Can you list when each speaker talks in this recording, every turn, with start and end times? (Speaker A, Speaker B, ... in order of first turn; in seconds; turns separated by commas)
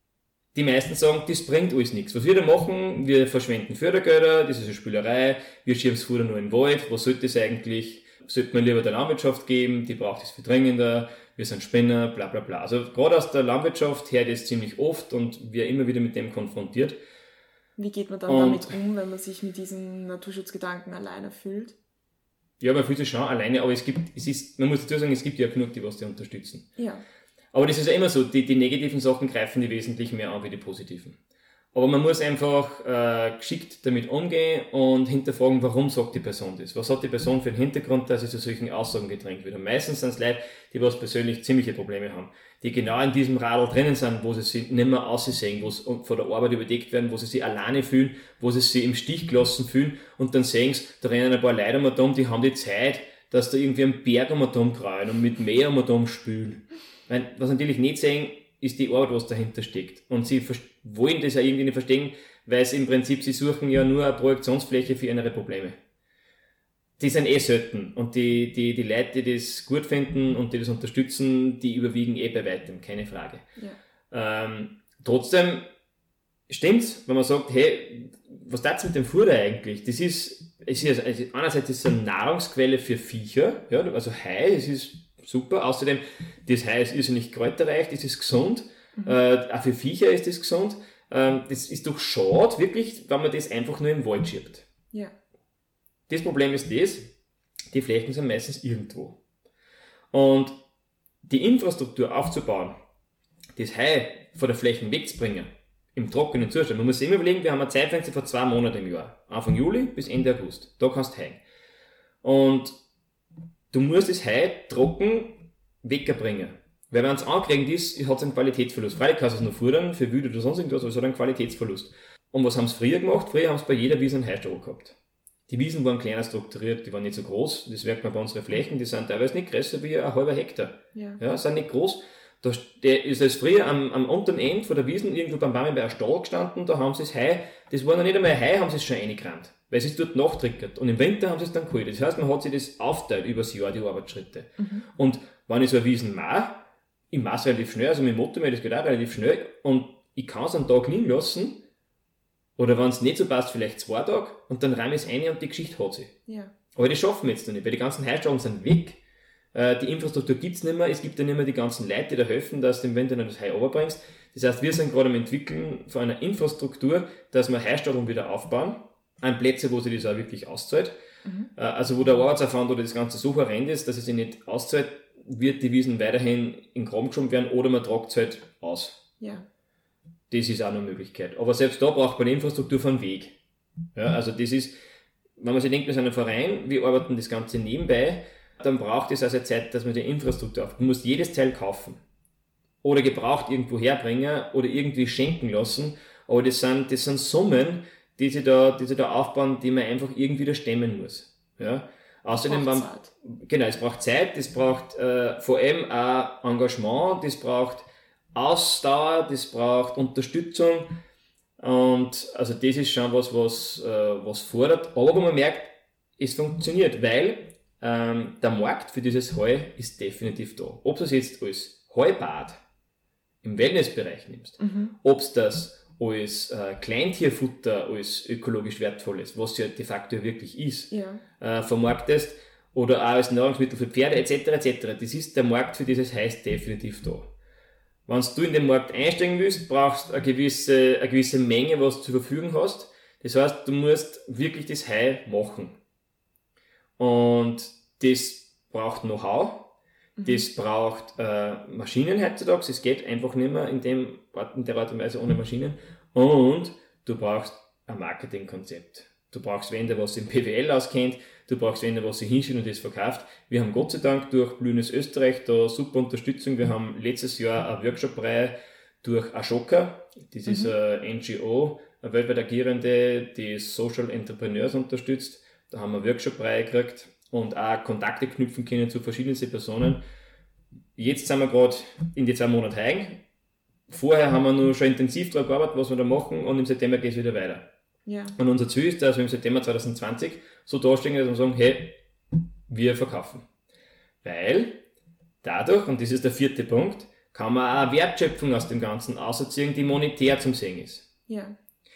Speaker A: 0.5-17.0, Speaker B: 17.8-21.8, Speaker A: 18.3-18.8, Speaker A: 22.6-26.7, Speaker B: 26.8-27.0, Speaker A: 27.5-31.2, Speaker A: 31.7-65.8, Speaker A: 67.0-73.5, Speaker A: 74.1-75.7, Speaker A: 76.5-94.7, Speaker A: 96.1-97.1, Speaker A: 97.7-99.2, Speaker A: 100.1-100.6, Speaker A: 101.2-102.8, Speaker A: 103.6-111.4, Speaker A: 112.2-112.8, Speaker A: 113.7-125.0, Speaker A: 125.5-151.6, Speaker B: 130.9-131.2, Speaker B: 144.6-144.9, Speaker A: 152.6-156.1, Speaker B: 156.3-156.5, Speaker A: 156.7-159.0, Speaker A: 159.5-170.9, Speaker B: 171.2-171.5, Speaker A: 171.6-179.0, Speaker B: 179.2-179.5, Speaker A: 180.3-183.4, Speaker A: 183.9-184.7, Speaker A: 185.4-192.0, Speaker A: 192.8-210.9, Speaker B: 202.5-203.1, Speaker A: 211.6-222.6, Speaker A: 223.4-237.3, Speaker B: 224.6-224.9, Speaker B: 230.9-231.2, Speaker A: 238.1-245.8, Speaker A: 247.0-249.7, Speaker B: 250.2-250.5, Speaker A: 250.2-280.0, Speaker A: 281.0-283.2, Speaker A: 283.9-287.7, Speaker B: 288.1-288.4, Speaker A: 288.4-292.0, Speaker A: 292.7-293.4, Speaker A: 294.2-294.8, Speaker A: 295.4-301.1, Speaker B: 301.3-301.6